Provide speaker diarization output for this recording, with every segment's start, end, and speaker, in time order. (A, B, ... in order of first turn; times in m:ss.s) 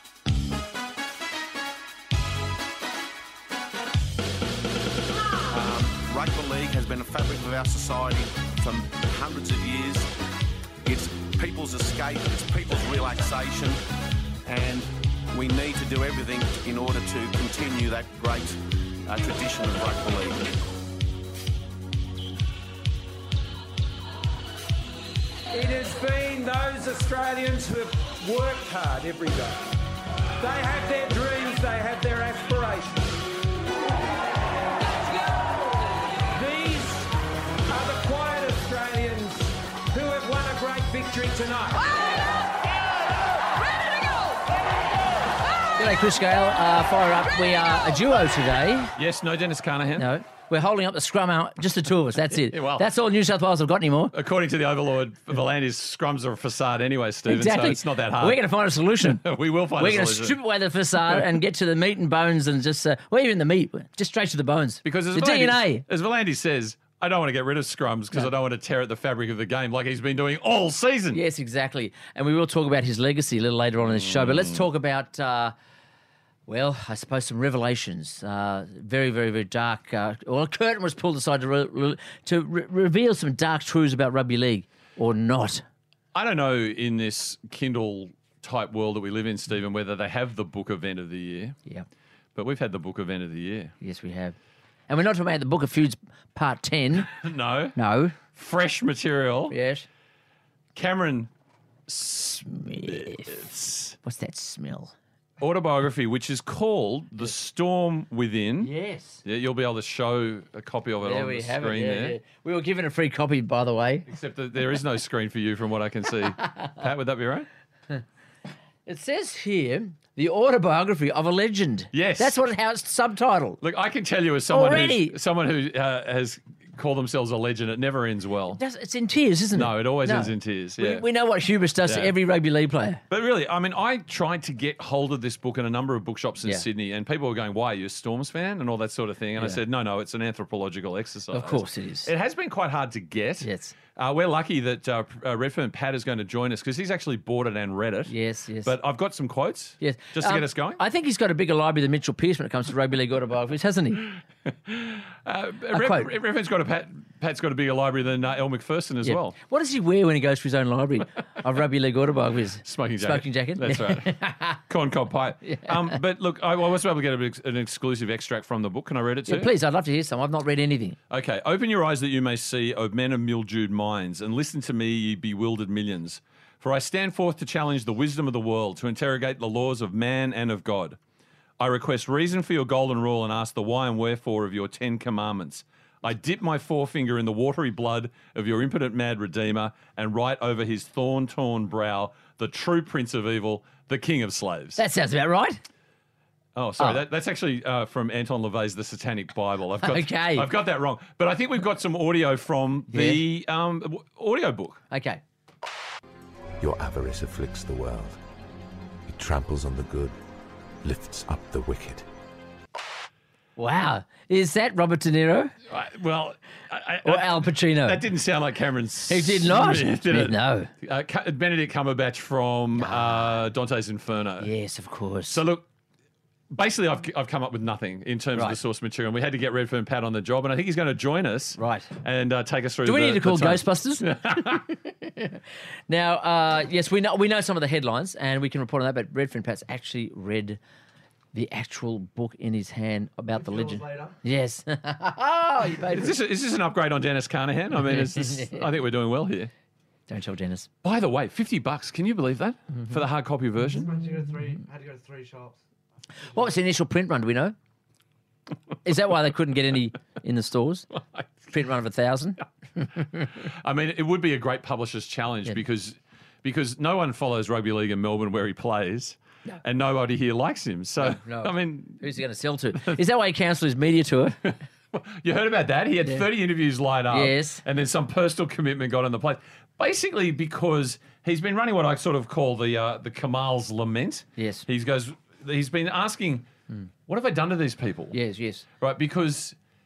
0:05.5-0:10.1 A
0:10.8-0:13.8 A
0:14.4-0:20.5 A
0:25.5-0:29.7 B
0:30.4-0:33.0 B
0:34.9-0:37.1 B
0:37.7-0:42.0 B
0:45.8-0:48.9 C
0:49.0-0:50.1 D
0:50.0-0:54.1 C
0:52.3-0:52.9 D
0:54.1-0:58.4 D
0:57.3-0:59.2 C
0:59.0-1:00.4 D
0:59.8-1:05.8 C
1:04.8-1:11.2 D
1:11.1-1:15.6 C
1:13.9-1:14.6 D
1:16.5-1:25.6 C
1:26.1-1:31.6 D
1:32.4-1:33.7 D
1:33.8-1:34.4 C
1:34.9-1:37.1 C
1:37.1-1:37.8 D
1:37.8-1:38.2 C
1:38.3-1:39.6 D
1:39.5-1:39.9 C
1:40.8-1:41.3 D
1:41.9-1:44.0 D
1:42.4-1:43.4 C
1:44.0-1:44.9 C
1:45.4-1:48.7 D
1:48.6-1:49.2 C
1:49.2-1:52.2 D
1:51.0-1:54.0 C
1:54.1-1:57.5 D
1:58.9-2:03.6 C
2:01.9-2:02.4 D
2:03.6-2:08.6 D
2:04.5-2:05.1 C
2:08.5-2:13.0 C
2:09.5-2:11.0 D
2:11.8-2:12.1 D
2:13.1-2:28.1 D
2:19.4-2:19.6 C
2:21.3-2:22.1 C
2:23.4-2:23.7 C
2:28.1-2:28.7 C
2:28.6-2:30.8 D
2:29.8-2:34.1 C
2:34.7-2:39.4 D
2:35.7-2:36.1 C
2:39.0-2:44.6 C
2:42.6-2:44.1 D
2:44.7-2:49.5 D
2:45.4-2:46.0 C
2:49.3-2:51.0 C
2:51.1-3:01.0 D
3:01.6-3:14.8 D
3:14.8-3:15.6 C
3:16.5-3:24.8 D
3:19.8-3:20.5 C
3:22.9-3:23.2 C
3:24.9-3:25.2 C
3:26.6-3:28.2 E
3:29.1-3:30.2 E
3:30.8-3:32.0 E
3:33.6-3:35.5 C
3:35.7-3:44.5 D
3:37.0-3:38.0 C
3:39.1-3:40.7 C
3:42.8-3:43.4 C
3:44.4-3:45.4 C
3:45.3-3:45.6 D
3:46.5-3:54.7 D
3:51.6-3:51.9 C
3:52.8-4:00.6 C
4:01.3-4:06.1 C
4:03.3-4:04.2 F
4:05.9-4:09.5 D
4:07.8-4:08.6 C
4:10.1-4:10.7 C
4:10.8-4:13.9 D
4:13.7-4:15.6 F
4:16.2-4:17.6 C
4:18.8-4:20.9 C
4:21.0-4:21.3 D
4:21.5-4:22.9 C
4:23.4-4:32.2 D
4:31.0-4:34.5 C
4:34.9-4:46.4 D
4:37.1-4:37.6 C
4:44.4-4:44.6 C
4:47.1-4:48.1 D
4:48.1-4:48.6 C
4:48.8-4:49.6 D